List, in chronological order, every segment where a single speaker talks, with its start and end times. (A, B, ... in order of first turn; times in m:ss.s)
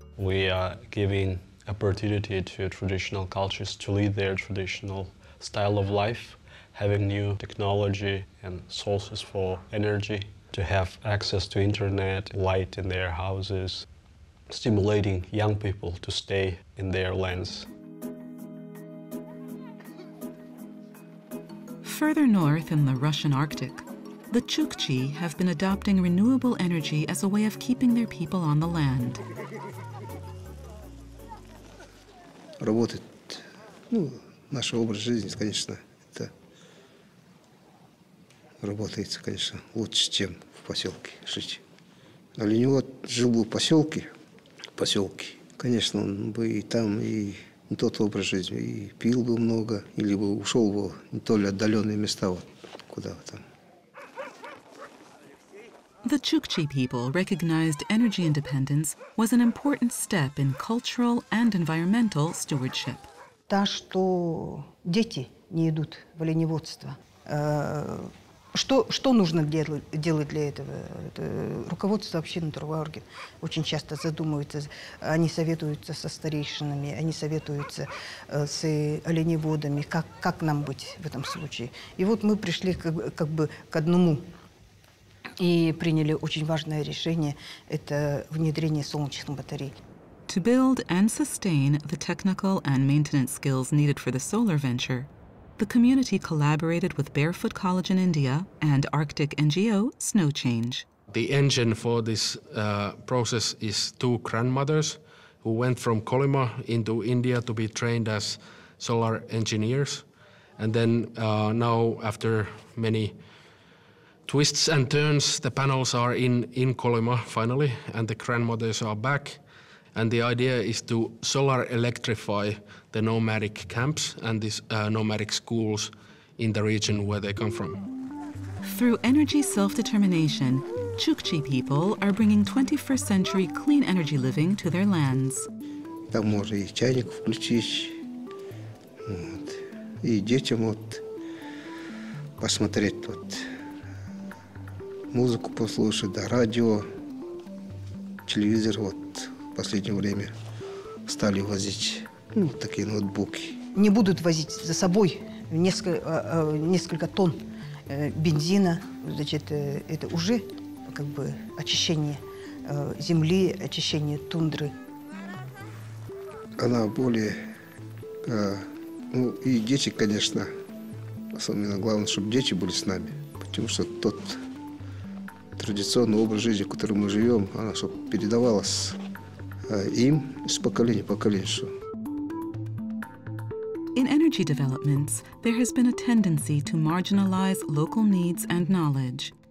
0:00.2-0:13.8 A
0:14.5-0:17.7 A
0:21.8-0:29.2 B
0:32.6-0:36.3 C
0:38.6-0:41.6 C
0:42.4-0:44.1 C
0:44.8-0:53.4 C
0:56.0-1:03.1 B
1:03.5-1:24.2 D
1:25.4-1:29.7 D
1:30.3-1:40.8 B
1:41.1-1:50.1 E
1:50.6-1:53.1 E
1:54.2-1:59.4 E
1:59.9-2:07.8 E
2:08.6-2:15.5 B
2:16.1-2:18.0 C
2:19.1-2:21.0 C
2:22.4-2:23.4 C
2:25.1-2:26.8 C
2:28.3-2:30.3 C
2:31.1-2:33.6 C
2:33.8-2:37.4 D
2:37.9-2:44.7 D
2:46.6-2:47.4 C
2:48.2-2:50.5 C
2:51.3-2:54.4 C
2:55.6-2:59.0 C
2:59.7-3:01.7 C
3:03.9-3:09.3 B